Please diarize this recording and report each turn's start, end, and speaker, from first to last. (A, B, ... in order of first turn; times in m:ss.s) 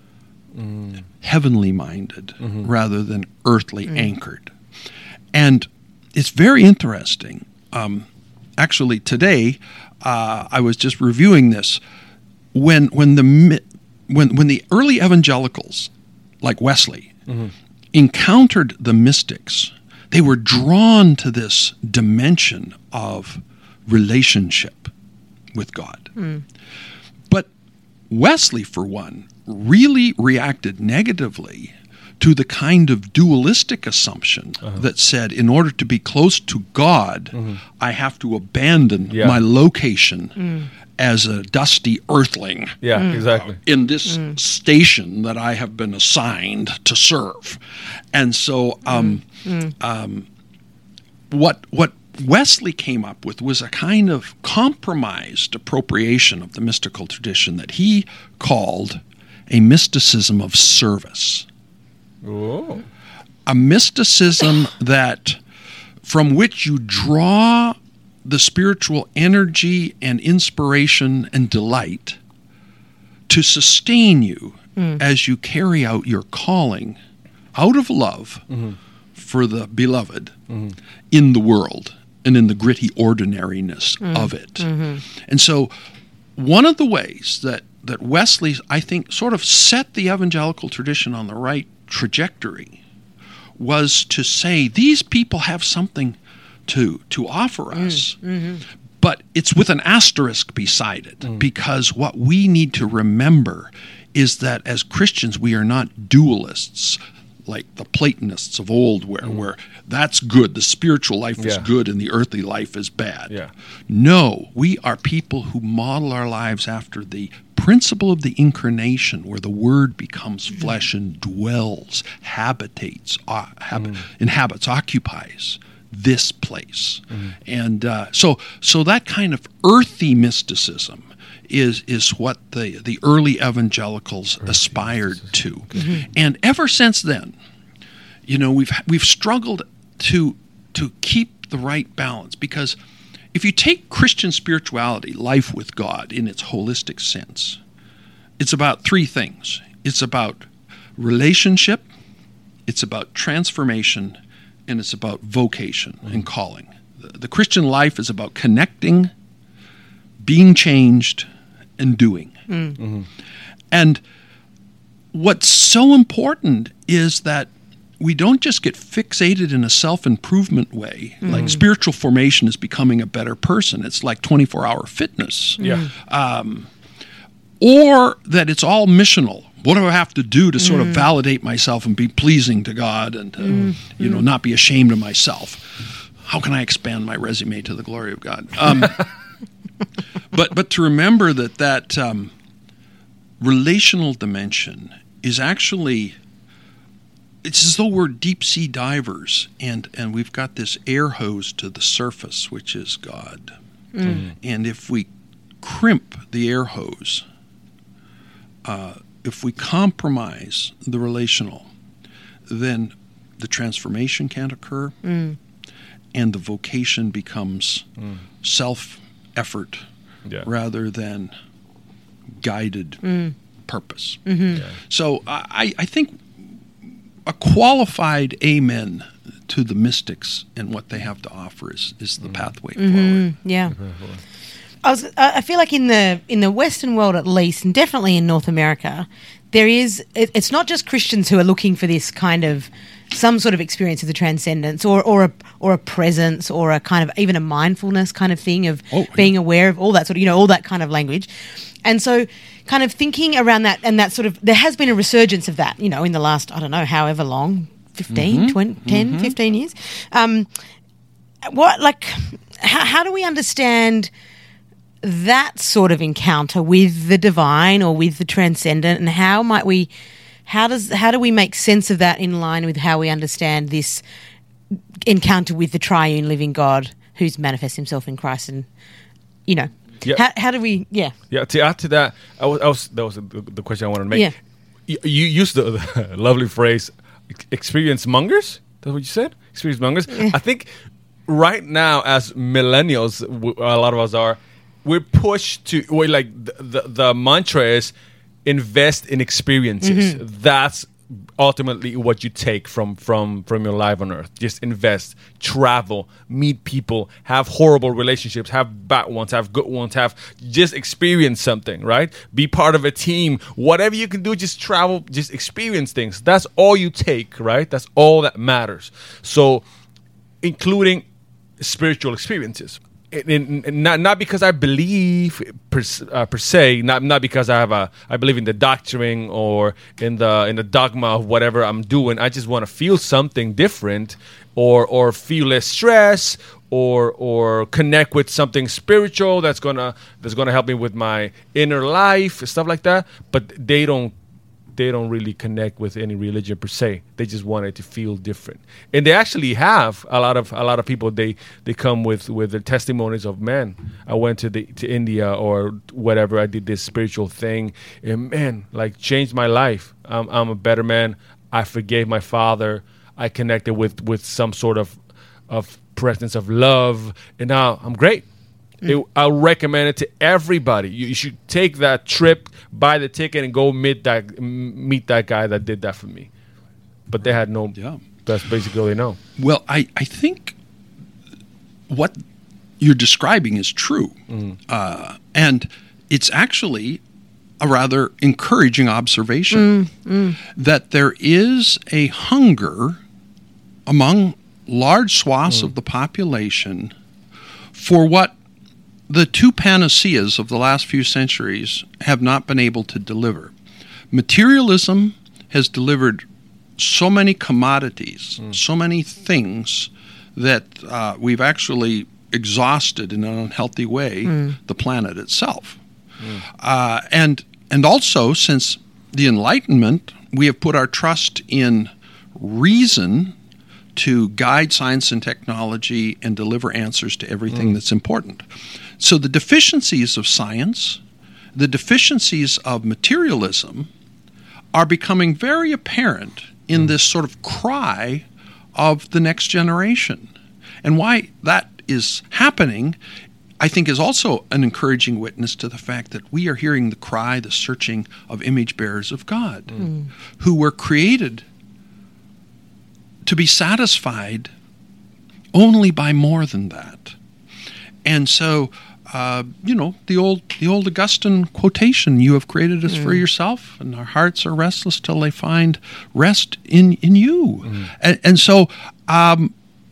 0:00.6-0:00.9 A
0:01.2-0:04.5 B
0:05.3-0:08.1 B
0:08.6-0:11.8 B
0:12.5-0:15.9 B
0:16.4-0:17.2 B
0:17.9-0:24.9 B
0:25.5-0:26.1 B
0:28.1-0:50.3 B
0:39.1-0:39.4 A
0:42.8-0:43.6 A
0:51.3-1:01.5 B
1:02.2-1:02.8 A
1:03.5-1:05.4 B
1:06.0-1:12.2 B
1:13.3-1:17.0 B
1:17.6-1:18.5 B
1:19.2-1:20.4 B
1:21.1-1:25.7 B
1:24.6-1:25.0 C
1:26.4-1:32.8 B
1:33.6-1:38.2 B
1:38.2-1:38.6 C
1:39.0-1:53.3 B
1:51.4-1:51.6 A
1:53.9-2:17.4 B
2:18.3-2:22.8 B
2:23.3-2:27.6 B
2:28.4-2:31.9 B
2:32.7-2:39.1 B
2:40.2-2:41.3 B
2:41.8-2:42.3 B
2:42.5-2:42.8 C
2:42.8-2:43.1 A
2:43.7-2:44.0 B
2:45.1-2:56.7 B
2:55.6-2:55.9 C
2:57.6-3:09.1 B
3:10.3-3:12.3 B
3:13.4-3:16.2 B
3:17.4-3:25.1 B
3:24.0-3:24.2 C
3:25.6-3:27.3 B
3:28.6-3:31.7 B
3:32.5-3:35.0 B
3:35.0-3:35.4 C
3:36.1-3:37.9 B
3:38.4-3:39.9 B
3:40.4-3:41.3 B
3:42.4-3:43.0 B
3:43.0-3:43.3 C
3:43.7-3:46.4 B
3:44.3-3:44.6 C
3:47.3-3:53.3 B
3:52.8-3:53.8 C
3:53.8-3:54.2 A
3:54.8-4:11.3 C
4:08.9-4:09.3 B
4:11.8-4:20.5 C
4:18.1-4:19.4 B
4:21.4-4:24.1 C
4:25.0-4:29.9 C
4:30.5-4:34.0 C
4:35.0-4:38.7 C
4:39.5-4:41.1 C
4:41.3-4:44.3 A
4:44.9-4:50.7 A
4:51.3-4:57.9 A
4:58.4-5:19.6 A
4:59.8-5:00.2 C
5:20.4-5:21.0 A
5:21.6-5:44.1 A
5:44.8-6:05.0 A
6:05.5-6:08.3 A
6:08.8-6:16.3 A
6:17.1-6:19.2 A
6:17.8-6:18.0 B
6:19.4-6:20.6 B
6:21.9-6:22.2 B
6:22.8-6:27.0 B
6:24.3-6:24.6 A
6:27.6-6:29.8 B
6:29.6-6:30.4 C
6:30.4-6:33.0 B
6:33.9-6:36.9 B
6:37.7-6:38.4 B
6:39.1-6:43.5 B
6:44.1-6:46.3 B
6:46.8-6:55.8 B
6:56.4-7:03.4 B
7:04.0-7:08.5 B
7:09.0-7:11.0 B
7:11.6-7:13.9 B
7:14.7-7:20.3 B
7:20.8-7:23.0 B
7:23.6-7:29.8 B
7:30.4-7:31.4 B
7:33.2-7:34.5 B
7:35.5-7:37.2 B
7:38.0-7:49.5 B